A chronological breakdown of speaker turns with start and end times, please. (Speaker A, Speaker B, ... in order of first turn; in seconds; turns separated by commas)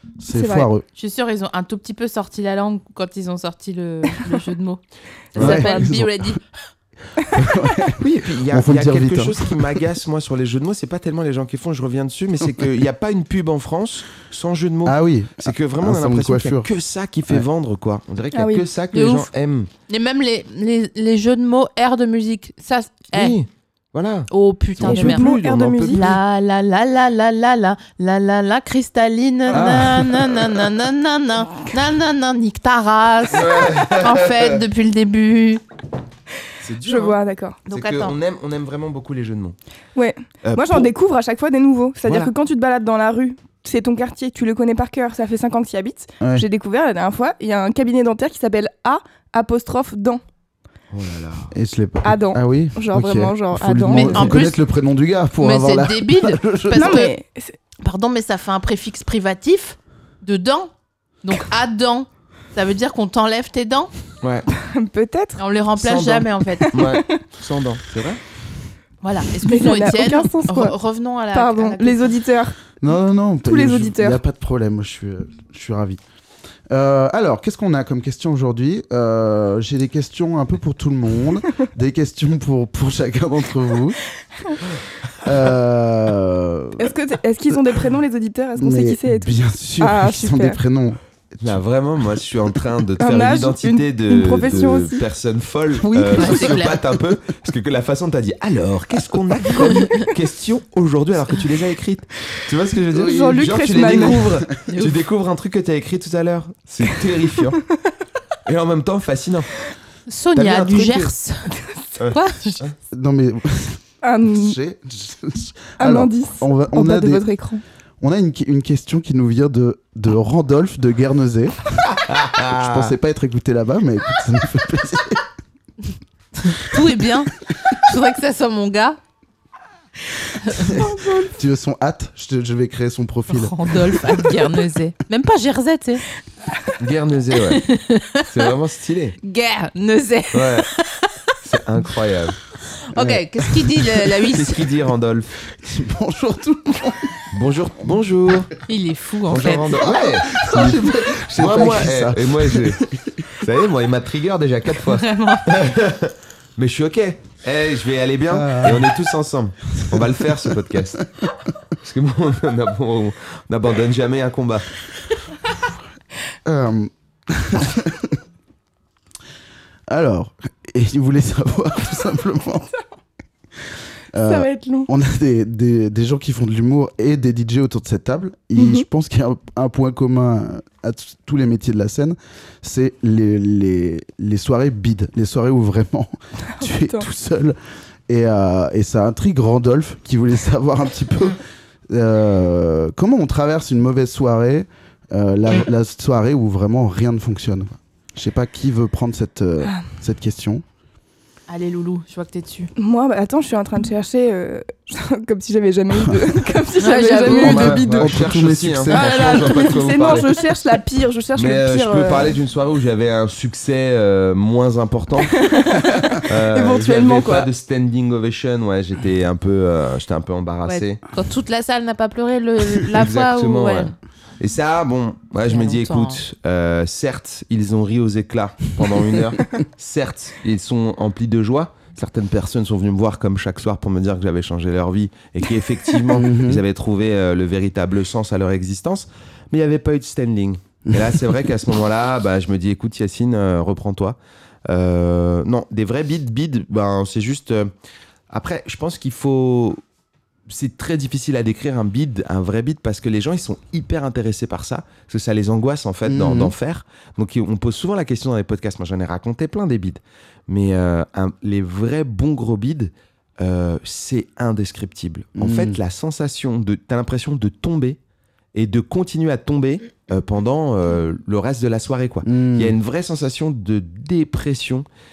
Speaker A: 0.2-0.8, Speaker B: 0.3-0.7, Speaker C: 1.0-4.8, Speaker C: 5.3-6.4, Speaker D: 5.3-5.8, Speaker A: 5.4-6.4, Speaker A: 7.3-9.6, Speaker D: 8.0-19.7, Speaker A: 14.8-16.7, Speaker B: 18.3-18.7, Speaker C: 18.9-19.3, Speaker C: 19.9-23.4, Speaker D: 23.1-26.2, Speaker C: 24.3-35.6, Speaker B: 24.8-26.1, Speaker D: 29.5-30.1, Speaker A: 29.5-30.1, Speaker D: 33.3-34.6, Speaker D: 36.6-37.2, Speaker B: 36.8-37.6, Speaker C: 37.7-38.1, Speaker D: 37.7-39.5, Speaker B: 40.0-50.2, Speaker D: 40.4-40.9, Speaker D: 42.0-42.3, Speaker D: 50.9-51.5, Speaker A: 51.5-57.1, Speaker B: 52.0-54.4, Speaker C: 53.9-54.6, Speaker C: 55.4-57.1, Speaker B: 56.7-57.6, Speaker C: 57.8-60.7, Speaker C: 61.2-63.9, Speaker D: 64.2-64.5, Speaker B: 64.5-65.4, Speaker C: 65.4-66.9, Speaker D: 65.8-68.2, Speaker B: 66.7-67.1, Speaker C: 69.0-72.1, Speaker B: 69.5-70.8, Speaker B: 71.3-72.6, Speaker A: 72.8-76.0, Speaker B: 73.5-74.2, Speaker A: 76.7-84.0, Speaker A: 85.2-87.0, Speaker B: 86.8-90.6, Speaker A: 88.6-91.5, Speaker D: 91.4-107.6, Speaker B: 93.0-95.0, Speaker A: 95.8-96.8, Speaker C: 96.1-96.8, Speaker B: 102.9-104.3, Speaker C: 104.7-105.0, Speaker D: 108.5-109.5, Speaker C: 110.1-111.5, Speaker D: 110.3-111.1, Speaker D: 112.0-112.8, Speaker C: 112.1-112.6, Speaker A: 112.9-117.3, Speaker B: 114.0-114.6, Speaker B: 115.8-117.6, Speaker A: 118.0-125.2, Speaker D: 121.9-122.9, Speaker C: 126.4-129.0, Speaker C: 130.4-130.8, Speaker A: 130.5-134.3, Speaker B: 130.7-131.4, Speaker C: 133.3-136.0, Speaker D: 136.8-137.6, Speaker C: 137.5-138.5, Speaker D: 138.3-139.2, Speaker C: 139.2-141.2, Speaker D: 140.3-140.7, Speaker D: 141.4-142.4, Speaker C: 142.9-144.7, Speaker A: 143.0-143.2, Speaker D: 144.3-145.4, Speaker A: 145.6-147.3, Speaker D: 147.3-148.5, Speaker C: 148.7-149.9, Speaker D: 149.3-161.1, Speaker A: 149.8-153.5, Speaker C: 154.9-155.5, Speaker A: 158.3-159.0, Speaker A: 159.7-160.6, Speaker D: 161.8-164.7, Speaker A: 166.4-168.2, Speaker A: 169.9-172.7, Speaker A: 174.1-187.6, Speaker B: 174.2-174.9, Speaker B: 178.6-178.8, Speaker B: 186.6-187.1, Speaker A: 188.1-200.6, Speaker C: 201.5-202.7, Speaker B: 202.8-208.2, Speaker C: 206.8-207.8, Speaker D: 207.2-210.4, Speaker A: 207.5-209.7, Speaker B: 208.9-212.4, Speaker D: 211.3-221.0, Speaker B: 215.2-217.5, Speaker C: 220.7-223.9, Speaker D: 222.9-244.2, Speaker C: 225.4-226.2, Speaker A: 236.1-236.6, Speaker D: 244.7-247.7, Speaker D: 248.3-249.8, Speaker D: 250.5-268.0, Speaker A: 256.1-256.5, Speaker A: 265.4-265.8, Speaker D: 268.6-274.9, Speaker A: 272.2-272.8